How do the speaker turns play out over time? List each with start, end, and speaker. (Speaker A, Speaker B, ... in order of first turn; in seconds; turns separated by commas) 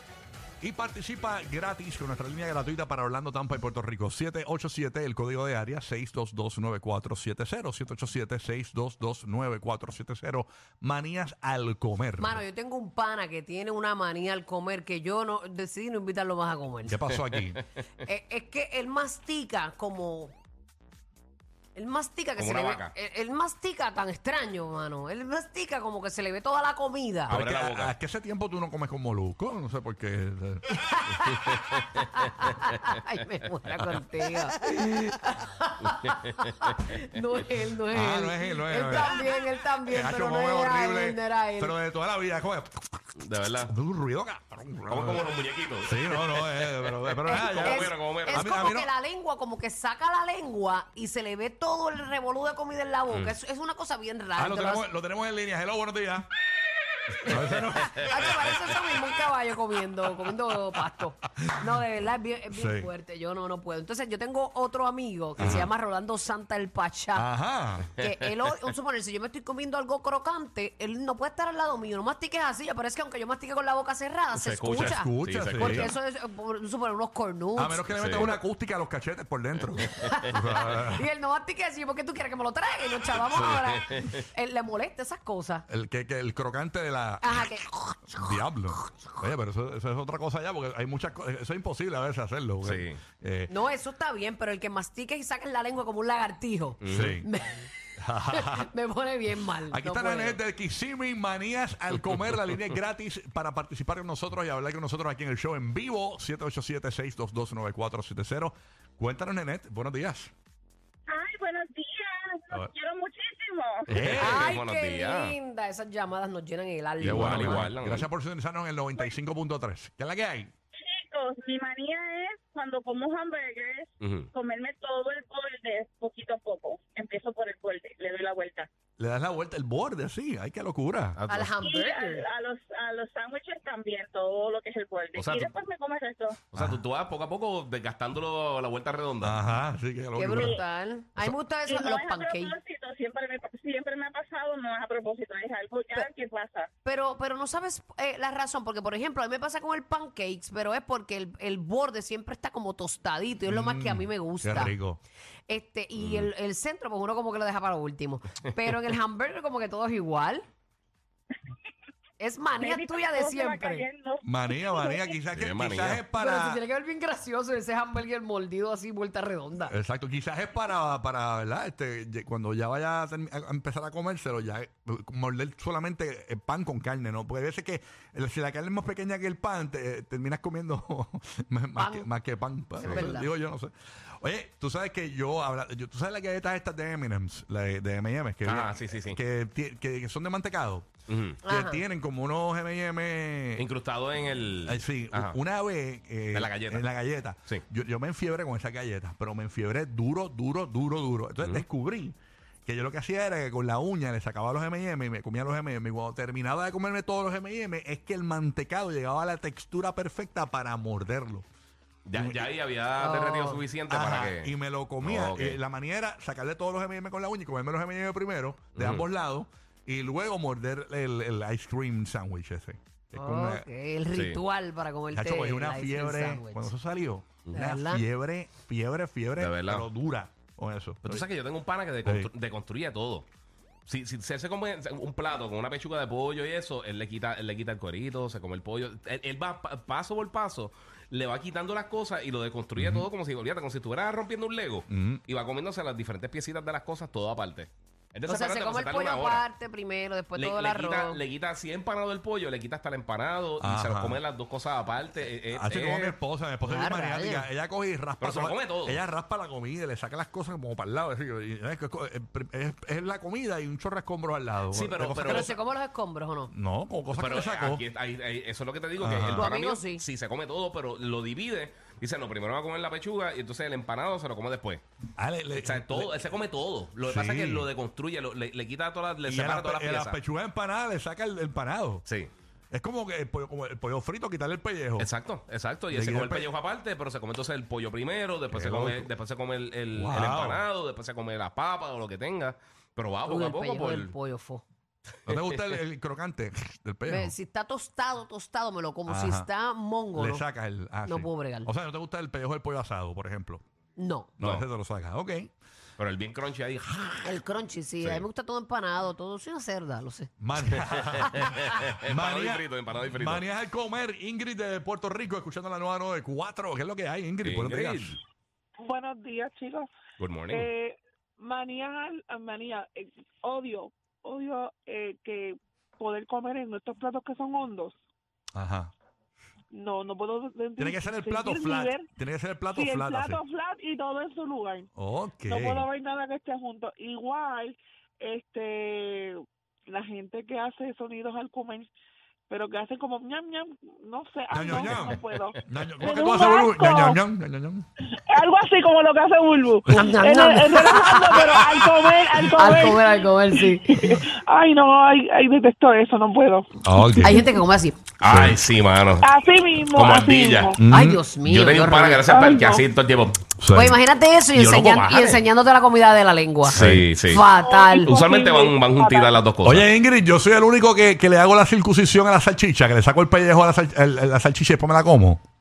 Speaker A: 0.6-12.4, Speaker B: 12.2-17.0, Speaker A: 16.9-17.6, Speaker B: 18.0-20.3, Speaker B: 21.7-27.4, Speaker C: 22.4-22.9, Speaker C: 27.3-27.9, Speaker A: 27.3-30.7, Speaker B: 30.7-41.8, Speaker C: 35.8-36.8, Speaker A: 37.9-43.0, Speaker C: 43.2-43.7, Speaker A: 43.6-45.2, Speaker C: 44.9-48.6, Speaker A: 45.8-48.9, Speaker B: 47.2-54.8, Speaker C: 53.1-53.3, Speaker A: 54.4-56.3, Speaker A: 57.2-58.3, Speaker B: 57.2-67.3, Speaker A: 62.5-62.9, Speaker C: 65.4-65.7, Speaker A: 67.1-67.9, Speaker B: 68.0-78.4, Speaker C: 74.3-75.9, Speaker A: 74.6-75.9, Speaker A: 77.5-81.0, Speaker C: 77.9-78.2, Speaker B: 79.9-85.7, Speaker C: 83.3-84.2, Speaker A: 85.7-87.5, Speaker B: 87.2-88.3, Speaker A: 88.1-93.5, Speaker C: 92.6-93.0, Speaker B: 93.5-97.7, Speaker C: 96.8-97.2, Speaker A: 96.8-97.3, Speaker A: 98.0-98.7, Speaker B: 98.3-100.4, Speaker A: 99.7-110.3, Speaker D: 111.1-113.9, Speaker A: 113.9-114.5, Speaker C: 114.0-115.3, Speaker B: 114.2-117.7, Speaker A: 117.0-120.5, Speaker C: 117.0-118.1, Speaker D: 120.8-128.7, Speaker C: 124.0-124.3, Speaker A: 129.0-131.2, Speaker C: 131.2-131.5, Speaker B: 131.3-132.3, Speaker D: 131.6-136.4, Speaker C: 135.1-135.5, Speaker C: 136.5-139.3, Speaker A: 139.2-140.6, Speaker B: 140.2-142.5, Speaker D: 140.3-140.6, Speaker D: 141.7-146.7, Speaker B: 146.8-154.8, Speaker A: 153.5-155.0, Speaker B: 155.5-160.4, Speaker C: 156.0-156.3, Speaker B: 162.2-163.9, Speaker D: 162.6-165.0, Speaker A: 164.2-166.6, Speaker C: 165.3-166.0, Speaker B: 166.2-169.7, Speaker A: 169.7-190.9, Speaker B: 181.8-182.1, Speaker B: 182.8-183.3, Speaker C: 182.8-183.1, Speaker C: 188.4-189.2, Speaker C: 191.1-191.4, Speaker B: 191.4-191.8, Speaker A: 191.4-193.6, Speaker C: 193.6-195.4, Speaker A: 194.7-211.5, Speaker C: 196.3-196.8, Speaker C: 212.1-215.6, Speaker A: 212.1-212.4, Speaker B: 213.0-213.6, Speaker A: 213.9-223.7, Speaker C: 218.7-219.0, Speaker B: 223.2-226.7, Speaker C: 224.1-224.4, Speaker A: 225.1-231.2, Speaker B: 227.5-228.0, Speaker C: 229.4-229.8, Speaker C: 231.0-233.2, Speaker A: 232.0-232.3, Speaker C: 233.9-249.4, Speaker A: 242.8-243.1, Speaker A: 244.9-245.2, Speaker B: 248.3-251.2, Speaker C: 250.3-256.1, Speaker A: 253.6-254.2, Speaker A: 255.5-265.6, Speaker B: 256.6-257.5, Speaker C: 258.2-259.0, Speaker C: 264.7-265.5, Speaker B: 265.2-266.5, Speaker A: 266.5-267.8, Speaker C: 267.1-274.8, Speaker A: 269.0-269.5, Speaker B: 269.4-270.0, Speaker A: 275.2-276.2, Speaker C: 275.6-280.2, Speaker A: 277.0-277.7, Speaker A: 279.2-282.0, Speaker C: 282.0-282.3, Speaker A: 282.7-285.1, Speaker C: 285.0-294.1, Speaker A: 285.9-286.5, Speaker A: 288.5-289.1, Speaker A: 289.9-290.6, Speaker B: 293.2-294.6, Speaker C: 295.2-295.7, Speaker A: 295.3-297.3, Speaker B: 297.1-300.4, Speaker A: 299.1-299.5, Speaker A: 300.1-303.6, Speaker B: 301.1-301.7, Speaker B: 304.0-304.3, Speaker A: 304.4-305.5, Speaker C: 306.0-307.3, Speaker B: 307.2-310.3, Speaker C: 308.0-308.2, Speaker A: 310.4-318.2, Speaker C: 311.2-313.4, Speaker C: 317.4-318.2, Speaker E: 318.8-319.9, Speaker C: 320.2-320.7, Speaker E: 320.5-327.9, Speaker A: 328.5-328.9, Speaker E: 329.7-332.1, Speaker A: 330.8-333.4, Speaker E: 332.7-334.9, Speaker A: 334.9-335.9, Speaker E: 335.5-339.4, Speaker E: 339.9-341.9, Speaker E: 342.5-347.2, Speaker A: 344.5-347.9, Speaker E: 348.2-357.6, Speaker B: 349.9-351.9, Speaker B: 352.5-354.0, Speaker A: 356.8-357.4, Speaker B: 357.2-358.0, Speaker C: 358.2-359.3, Speaker A: 358.2-358.6, Speaker E: 359.2-360.8, Speaker C: 359.9-360.8, Speaker A: 360.8-361.2, Speaker B: 360.9-362.3, Speaker C: 361.4-363.4, Speaker E: 362.2-362.8, Speaker A: 363.6-364.0, Speaker B: 363.7-368.1, Speaker C: 364.5-365.4, Speaker C: 366.6-367.4, Speaker A: 366.7-367.1, Speaker E: 367.4-369.3, Speaker C: 368.0-369.9, Speaker A: 369.6-375.4